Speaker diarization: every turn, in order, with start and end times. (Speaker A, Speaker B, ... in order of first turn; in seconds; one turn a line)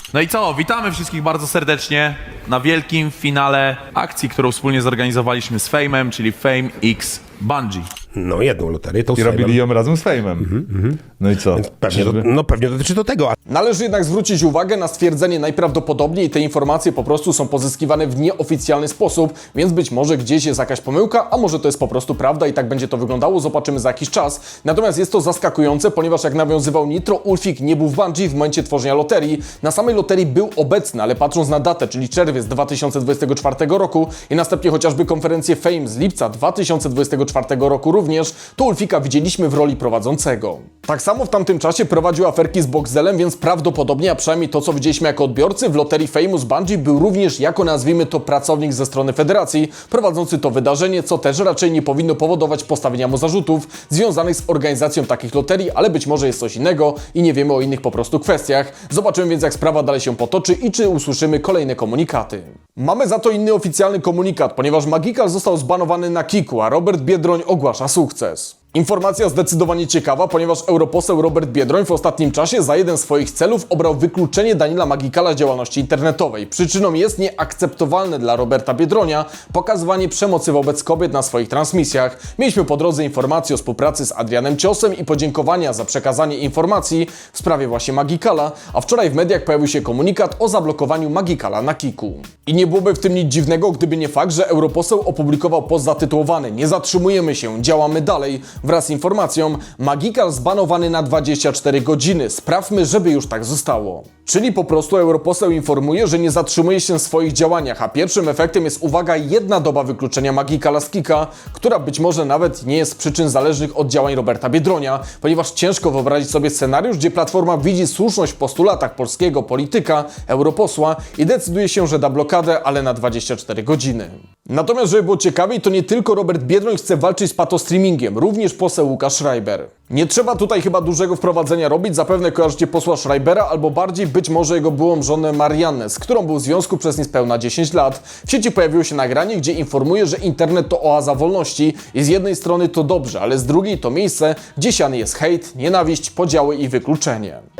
Speaker A: 0.1-7.9
Speaker B: 8.1-9.6
Speaker C: 9.1-10.6
Speaker B: 10.4-11.0
Speaker C: 11.2-12.3
Speaker B: 11.5-13.3
Speaker D: 13.5-147.4